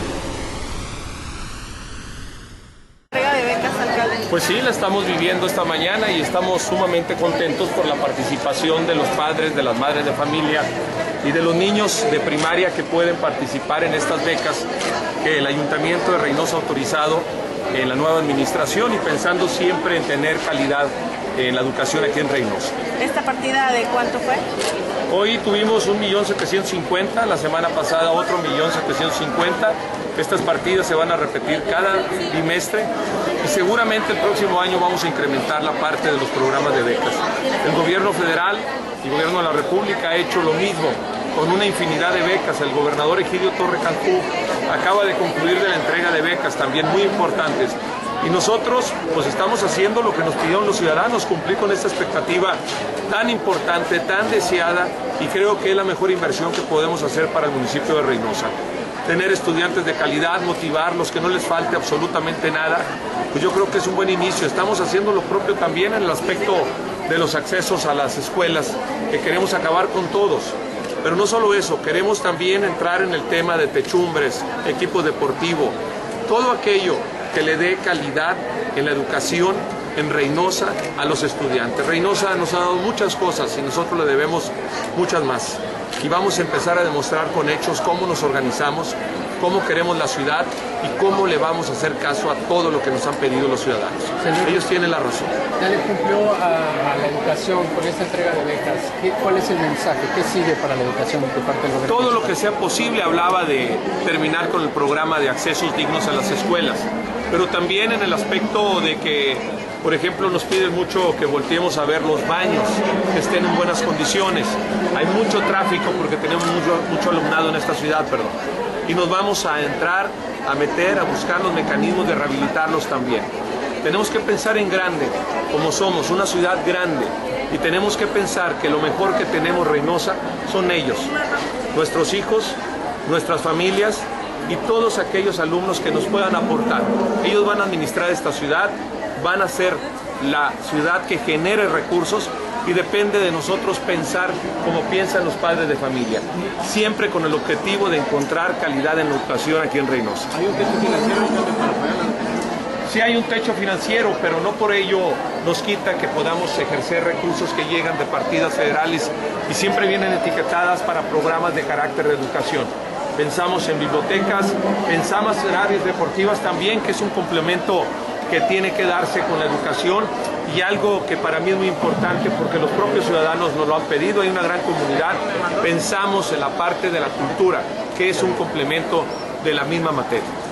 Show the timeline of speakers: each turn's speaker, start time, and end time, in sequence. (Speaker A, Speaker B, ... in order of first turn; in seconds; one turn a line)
Speaker A: 3.1-4.2
Speaker B: 4.3-10.7
Speaker B: 11.2-14.7
Speaker B: 15.2-22.8
Speaker A: 23.0-24.4
Speaker B: 25.1-58.5
Speaker B: 59.0-95.4
Speaker C: 94.2-94.7
Speaker C: 95.6-102.4
Speaker B: 101.9-118.3
Speaker B: 118.8-123.3
Speaker B: 123.8-131.1
Speaker B: 131.7-150.4
Speaker A: 150.7-151.4
Speaker B: 152.9-180.3